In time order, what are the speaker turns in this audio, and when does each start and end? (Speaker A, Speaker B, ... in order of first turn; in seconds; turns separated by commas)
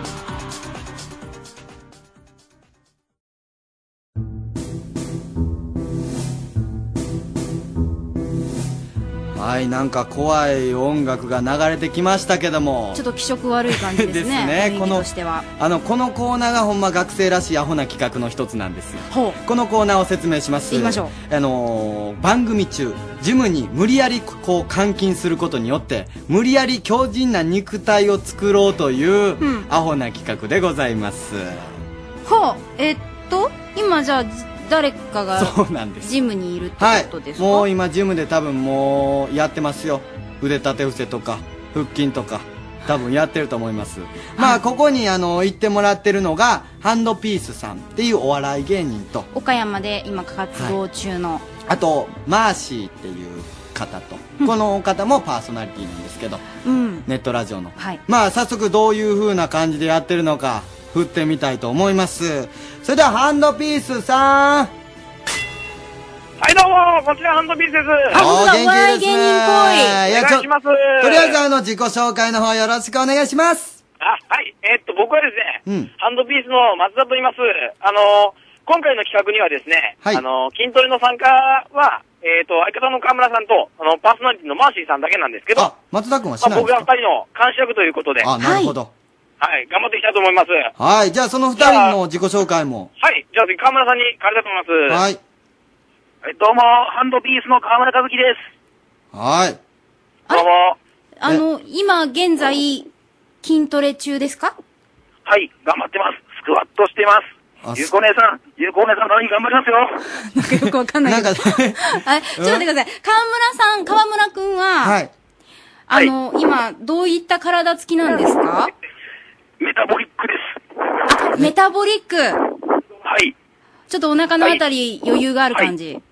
Speaker A: 9.3-13.0, Speaker B: 12.9-15.4, Speaker A: 13.7-15.1, Speaker A: 15.6-31.8, Speaker B: 19.1-19.4, Speaker B: 20.7-21.1, Speaker B: 29.4-29.7, Speaker B: 32.3-37.7, Speaker A: 35.4-36.1, Speaker A: 36.8-49.3, Speaker B: 49.3-51.5, Speaker A: 51.6-56.4, Speaker B: 56.6-57.1, Speaker A: 57.1-64.7, Speaker C: 66.4-68.1, Speaker A: 68.1-73.8, Speaker B: 68.1-70.0, Speaker C: 70.1-71.3, Speaker C: 74.0-85.7, Speaker A: 85.5-86.9, Speaker C: 86.5-88.3, Speaker A: 88.2-88.9, Speaker B: 88.4-88.8, Speaker C: 89.4-90.7, Speaker A: 90.8-92.9, Speaker C: 93.0-95.0, Speaker A: 94.9-95.2, Speaker C: 96.2-98.5, Speaker A: 99.1-99.6, Speaker C: 100.3-100.8, Speaker B: 101.2-102.9, Speaker B: 103.4-104.5, Speaker C: 105.3-110.0, Speaker A: 107.6-107.9, Speaker B: 110.3-115.0, Speaker A: 110.5-111.8, Speaker A: 112.4-112.7, Speaker A: 114.8-115.1, Speaker B: 115.9-118.7, Speaker C: 119.6-121.0, Speaker B: 121.1-122.4, Speaker C: 123.0-123.3, Speaker B: 123.9-126.0